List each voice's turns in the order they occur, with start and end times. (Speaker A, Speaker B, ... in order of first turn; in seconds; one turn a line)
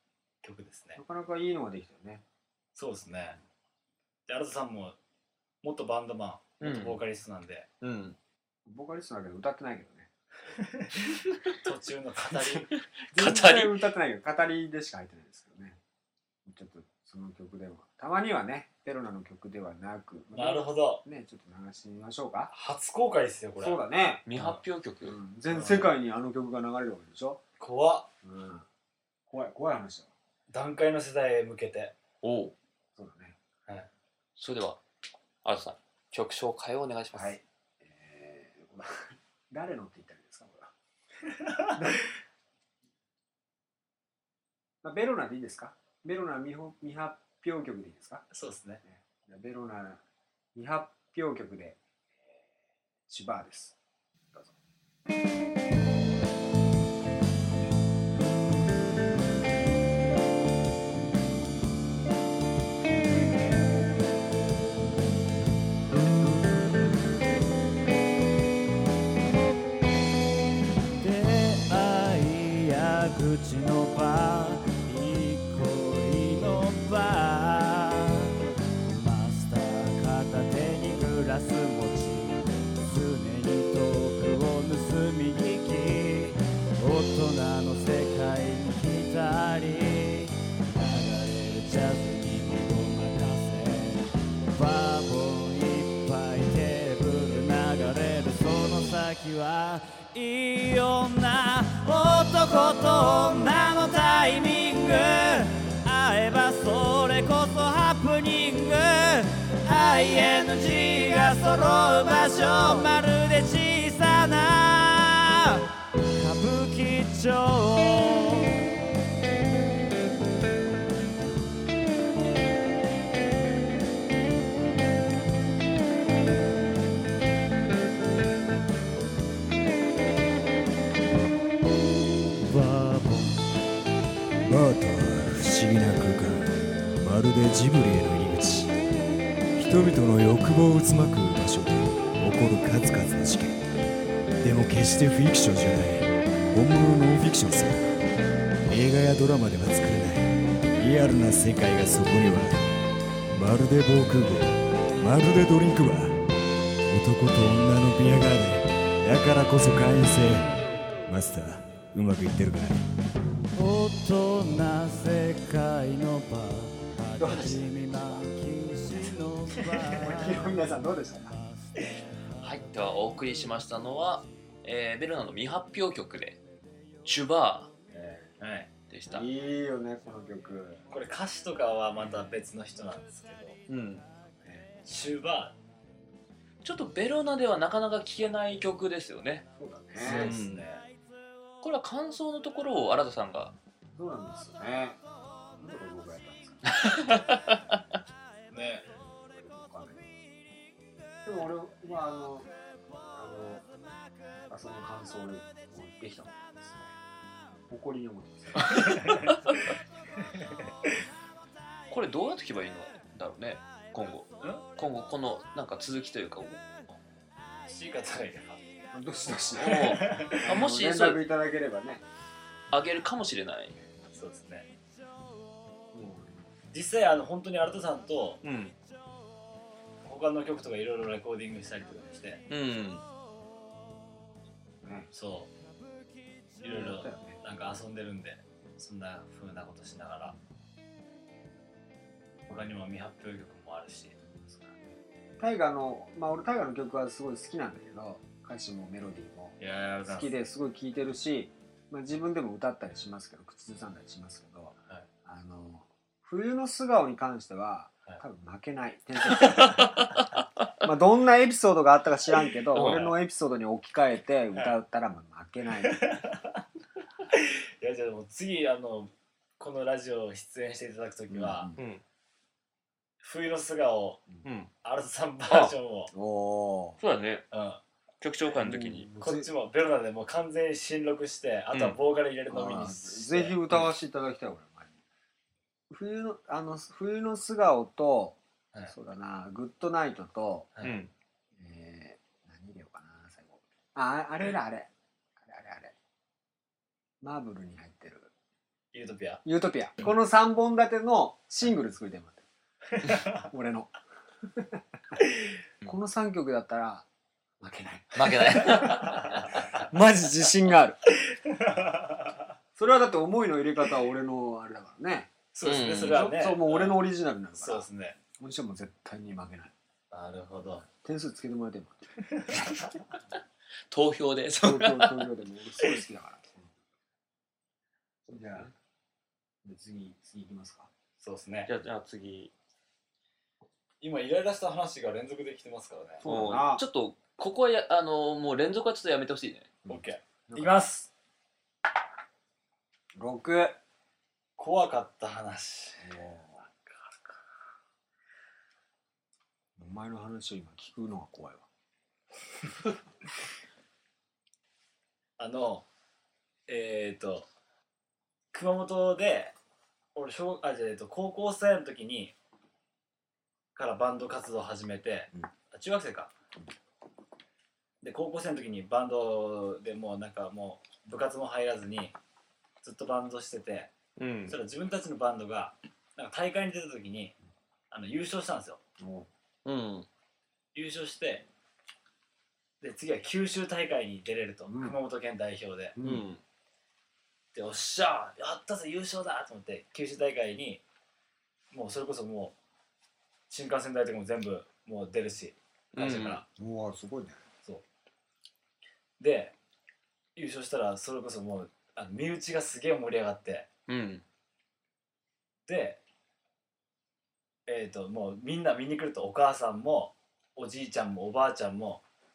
Speaker A: 0.4-1.0
Speaker B: 0.9-2.2
Speaker A: 2.8-3.4
Speaker A: 4.3-5.0
Speaker A: 5.6-7.7
Speaker C: 6.6-7.0
Speaker C: 7.8-8.2
Speaker B: 8.7-10.1
Speaker A: 10.6-12.7
Speaker C: 13.1-13.8
Speaker B: 13.1-15.8
Speaker B: 16.4-22.5
Speaker A: 20.3-21.0
Speaker A: 22.5-23.8
Speaker B: 23.6-24.3
Speaker C: 24.3-25.1
Speaker A: 24.3-24.6
Speaker B: 25.0-27.4
Speaker A: 25.5-25.9
Speaker A: 27.6-28.1
Speaker B: 28.2-28.6
Speaker B: 29.3-30.1
Speaker A: 30.5-31.9
Speaker C: 32.2-32.5
Speaker B: 33.0-33.4
Speaker C: 34.4-34.8
Speaker C: 35.4-37.4
Speaker B: 37.1-40.7
Speaker A: 41.3-42.0
Speaker B: 41.8-42.0
Speaker B: 44.8-48.2
Speaker A: 48.3-48.8
Speaker B: 48.8-50.0
Speaker B: 50.5-52.4
Speaker B: 53.1-53.8
Speaker D: 71.0-118.6
Speaker D: 132.4-133.4
Speaker E: 134.4-138.7
Speaker E: 139.6-143.6
Speaker E: 144.4-147.9
Speaker E: 148.7-152.7
Speaker E: 153.3-156.2
Speaker E: 156.9-162.9
Speaker D: 163.5-170.7
Speaker B: 167.2-168.3
Speaker B: 170.0-171.4
Speaker D: 171.3-173.2
Speaker C: 172.4-176.4
Speaker C: 177.0-177.7
Speaker A: 178.0-178.7
Speaker C: 178.9-179.2
Speaker B: 179.1-180.8
Speaker A: 180.9-183.6
Speaker C: 183.7-184.1
Speaker A: 184.8-185.6
Speaker C: 186.6-189.5
Speaker B: 189.6-190.3
Speaker A: 190.0-190.8
Speaker C: 190.0-190.7
Speaker C: 191.6-193.5
Speaker B: 193.9-195.0
Speaker B: 195.6-196.9
Speaker C: 196.7-197.6
Speaker A: 198.5-198.9
Speaker B: 199.3-200.1
Speaker B: 201.2-202.5
Speaker B: 203.1-203.7
Speaker B: 204.5-206.9
Speaker B: 207.7-209.2
Speaker A: 208.8-209.3
Speaker C: 211.9-216.7
Speaker A: 217.6-218.6
Speaker B: 218.9-222.0
Speaker C: 219.6-221.2
Speaker A: 219.8-220.4
Speaker C: 222.7-223.8
Speaker A: 224.1-224.7
Speaker B: 225.9-226.5
Speaker A: 226.7-228.4
Speaker C: 228.4-228.7
Speaker A: 230.0-232.4
Speaker C: 232.5-233.0
Speaker B: 234.8-235.1
Speaker A: 235.1-235.5
Speaker A: 236.6-240.4
Speaker B: 236.6-237.4
Speaker A: 242.5-244.2
Speaker B: 244.3-249.6
Speaker A: 249.6-250.3
Speaker B: 250.1-260.2
Speaker C: 260.1-260.4
Speaker B: 260.8-266.0
Speaker C: 262.7-263.1
Speaker A: 265.8-266.6
Speaker A: 267.3-271.7
Speaker B: 271.3-271.9
Speaker C: 271.8-272.0
Speaker A: 273.2-274.2
Speaker C: 274.4-274.7
Speaker A: 274.8-276.1
Speaker B: 276.1-277.0
Speaker C: 277.0-277.4
Speaker A: 277.5-277.8
Speaker C: 278.2-279.1
Speaker B: 278.6-279.5
Speaker A: 279.2-283.9
Speaker B: 282.5-285.0
Speaker B: 285.9-288.4
Speaker B: 288.9-290.7
Speaker C: 290.8-291.1
Speaker B: 291.6-295.9
Speaker B: 297.2-298.3
Speaker A: 298.9-299.4
Speaker B: 299.4-302.4
Speaker A: 303.0-303.4
Speaker B: 303.4-303.9
Speaker B: 304.5-304.8
Speaker B: 305.8-307.1
Speaker B: 307.6-309.3
Speaker C: 308.1-309.4
Speaker A: 308.7-309.6
Speaker B: 309.8-311.0
Speaker A: 311.3-312.3
Speaker B: 312.8-315.3
Speaker A: 315.5-317.0
Speaker C: 315.6-316.3
Speaker B: 315.9-317.9
Speaker A: 317.6-318.2
Speaker B: 318.4-319.7
Speaker A: 320.1-320.8
Speaker B: 320.7-322.1
Speaker A: 322.2-322.7
Speaker C: 323.9-325.3
Speaker B: 324.6-326.7
Speaker B: 328.3-328.7
Speaker B: 329.6-330.9
Speaker A: 331.2-331.7
Speaker C: 331.7-332.5
Speaker A: 334.0-336.2
Speaker B: 336.2-336.8
Speaker C: 336.2-339.7
Speaker B: 339.8-340.8
Speaker A: 339.9-341.1
Speaker B: 343.1-343.8
Speaker A: 344.6-346.0
Speaker B: 346.0-346.6
Speaker A: 346.8-347.4
Speaker B: 349.8-351.6
Speaker A: 355.4-355.9
Speaker A: 356.7-357.5
Speaker A: 358.5-359.5
Speaker A: 360.1-362.3
Speaker A: 363.8-366.3
Speaker A: 368.0-372.2
Speaker A: 372.8-373.9
Speaker C: 374.2-374.6
Speaker A: 374.5-377.3
Speaker A: 377.9-378.8
Speaker B: 379.0-379.3
Speaker C: 379.6-380.1
Speaker A: 380.7-381.4
Speaker A: 382.8-385.9
Speaker B: 384.7-384.9
Speaker B: 385.9-386.2
Speaker C: 386.0-386.4
Speaker A: 387.5-390.8
Speaker A: 391.7-392.6
Speaker A: 393.5-396.4
Speaker C: 395.9-396.4
Speaker B: 396.6-397.4
Speaker A: 399.2-399.5
Speaker A: 400.4-403.7
Speaker C: 403.9-404.2
Speaker A: 405.7-406.0
Speaker A: 407.7-412.0